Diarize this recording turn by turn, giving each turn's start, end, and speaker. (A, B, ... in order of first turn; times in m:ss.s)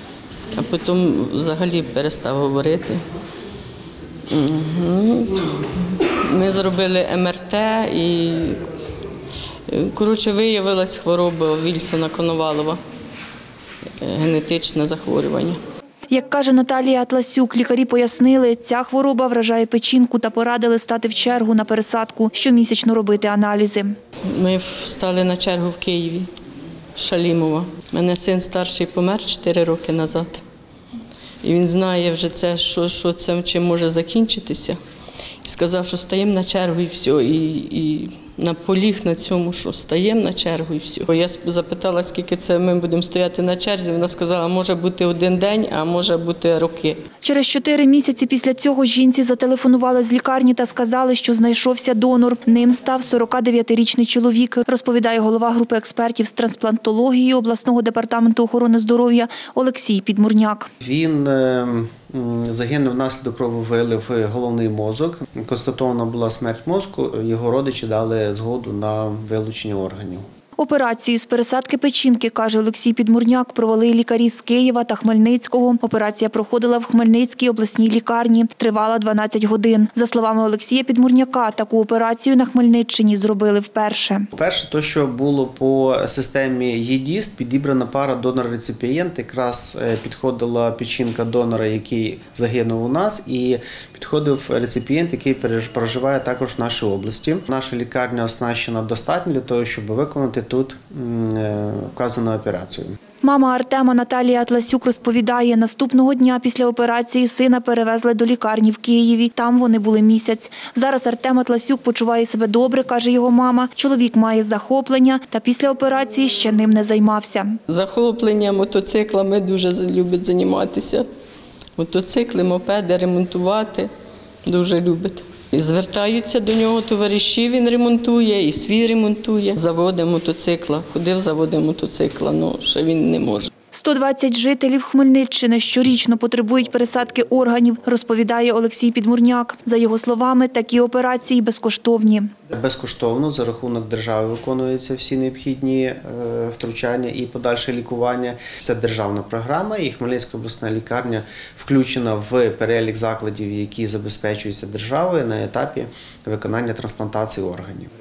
0:00.5-0:03.0 A
0:04.3-0:08.6 A
0:09.7-0:12.8 A
0:14.0-0:15.6 A
0:16.1-0:23.9 B
0:24.3-0:26.3 A
0:27.0-0:30.4 A
0:31.4-0:34.8 A
0:35.4-0:47.0 A
0:47.2-1:00.7 B
1:00.8-1:10.2 C
1:10.6-1:24.3 B
1:24.3-1:43.0 C
1:43.2-1:57.6 B
1:57.7-2:01.0 A
2:01.8-2:03.9 A
2:04.4-2:13.5 A
2:13.7-2:22.3 B
2:22.5-2:37.9 C